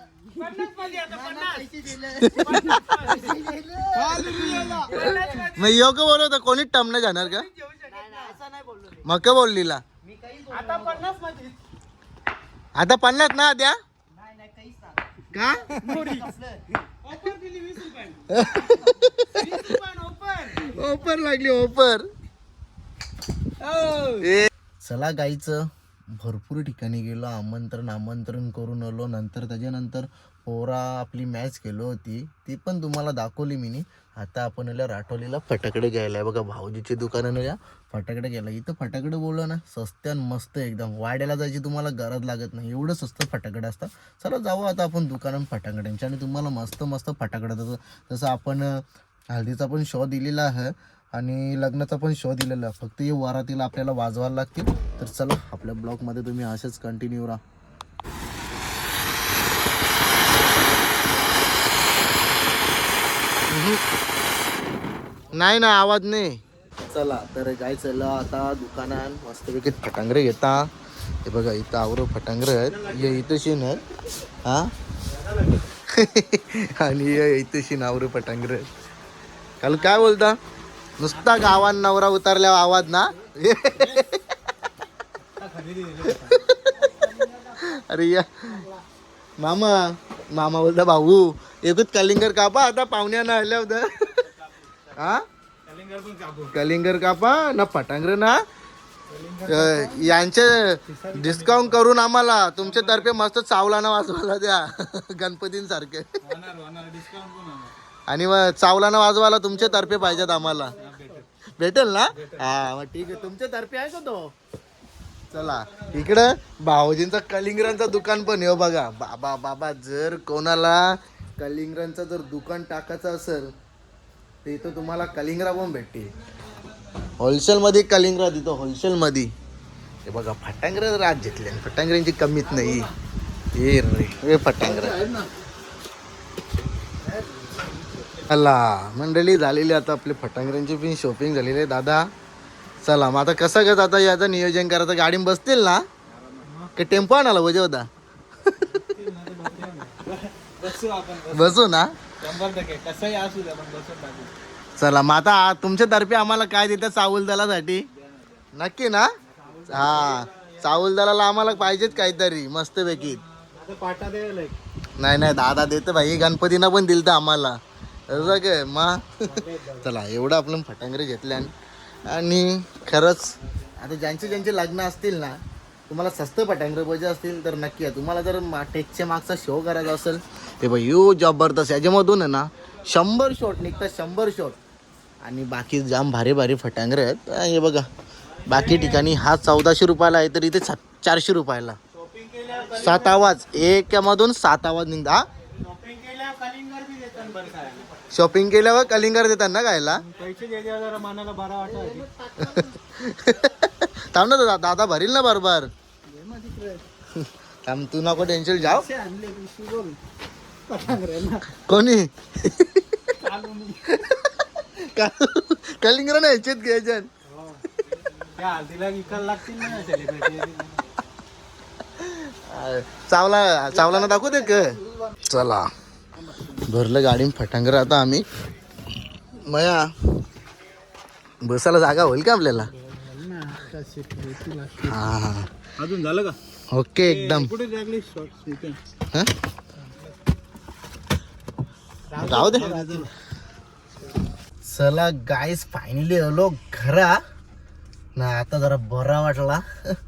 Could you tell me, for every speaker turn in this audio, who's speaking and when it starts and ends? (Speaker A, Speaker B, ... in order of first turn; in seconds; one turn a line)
Speaker A: 0.3-5.7
Speaker B: 2.1-3.1
Speaker B: 4.2-7.5
Speaker A: 7.5-8.4
Speaker B: 9.0-9.8
Speaker A: 10.1-11.6
Speaker B: 12.7-13.8
Speaker A: 14.4-14.8
Speaker B: 15.3-15.8
Speaker A: 15.8-16.4
Speaker A: 17.0-20.7
Speaker B: 18.3-19.8
Speaker B: 20.5-22.1
Speaker A: 23.6-24.3
Speaker B: 24.2-57.4
Speaker B: 63.5-63.8
Speaker B: 65.3-70.7
Speaker B: 71.2-73.8
Speaker A: 72.8-73.2
Speaker B: 74.4-74.7
Speaker A: 75.1-75.5
Speaker B: 75.9-78.7
Speaker B: 79.6-80.4
Speaker B: 81.0-84.2
Speaker A: 85.2-86.4
Speaker B: 86.1-86.9
Speaker A: 86.9-87.3
Speaker B: 87.4-88.7
Speaker B: 89.4-94.2
Speaker A: 94.4-94.8
Speaker B: 94.9-95.2
Speaker A: 95.7-96.5
Speaker B: 96.5-98.4
Speaker A: 99.1-100.1
Speaker B: 99.5-106.1
Speaker A: 100.9-101.8
Speaker A: 102.6-103.0
Speaker A: 106.2-107.7
Speaker B: 108.1-110.7
Speaker A: 110.2-111.3
Speaker B: 111.6-114.3
Speaker A: 112.2-112.5
Speaker B: 115.3-123.5
Speaker A: 115.7-116.0
Speaker B: 124.4-126.1
Speaker B: 127.2-129.3
Speaker B: 130.1-132.9
Speaker B: 133.5-135.0
Speaker A: 134.9-135.3
Speaker A: 137.1-137.6
Speaker B: 138.2-142.1
Speaker B: 142.8-145.8
Speaker A: 146.4-146.7
Speaker B: 146.7-147.9
Speaker A: 148.7-151.5
Speaker B: 151.3-151.9
Speaker A: 152.2-154.3
Speaker B: 154.8-157.8
Speaker B: 158.5-159.1
Speaker A: 159.3-160.6
Speaker B: 159.6-163.2
Speaker A: 163.4-164.6
Speaker B: 165.0-167.6
Speaker B: 168.1-171.5
Speaker A: 169.2-169.8
Speaker B: 172.1-184.6
Speaker B: 185.2-187.9
Speaker B: 188.4-191.8
Speaker A: 188.5-189.1
Speaker A: 191.9-193.2
Speaker B: 192.8-195.2
Speaker A: 195.5-198.0
Speaker B: 198.1-200.0
Speaker A: 200.0-202.6
Speaker B: 202.4-205.7
Speaker A: 206.1-206.8
Speaker B: 207.2-208.9
Speaker A: 208.5-210.0
Speaker A: 210.7-211.4
Speaker B: 211.5-213.1
Speaker A: 213.2-213.8
Speaker B: 213.9-217.1
Speaker A: 217.3-217.6
Speaker A: 218.1-220.9
Speaker B: 222.0-225.7
Speaker B: 226.5-228.2
Speaker B: 229.5-229.9
Speaker B: 231.4-232.7
Speaker A: 232.8-235.0
Speaker B: 234.8-235.5
Speaker A: 235.8-236.3
Speaker B: 236.7-237.5
Speaker A: 237.0-238.8
Speaker A: 242.1-243.1
Speaker B: 242.2-243.1
Speaker B: 244.6-247.2
Speaker B: 248.2-249.7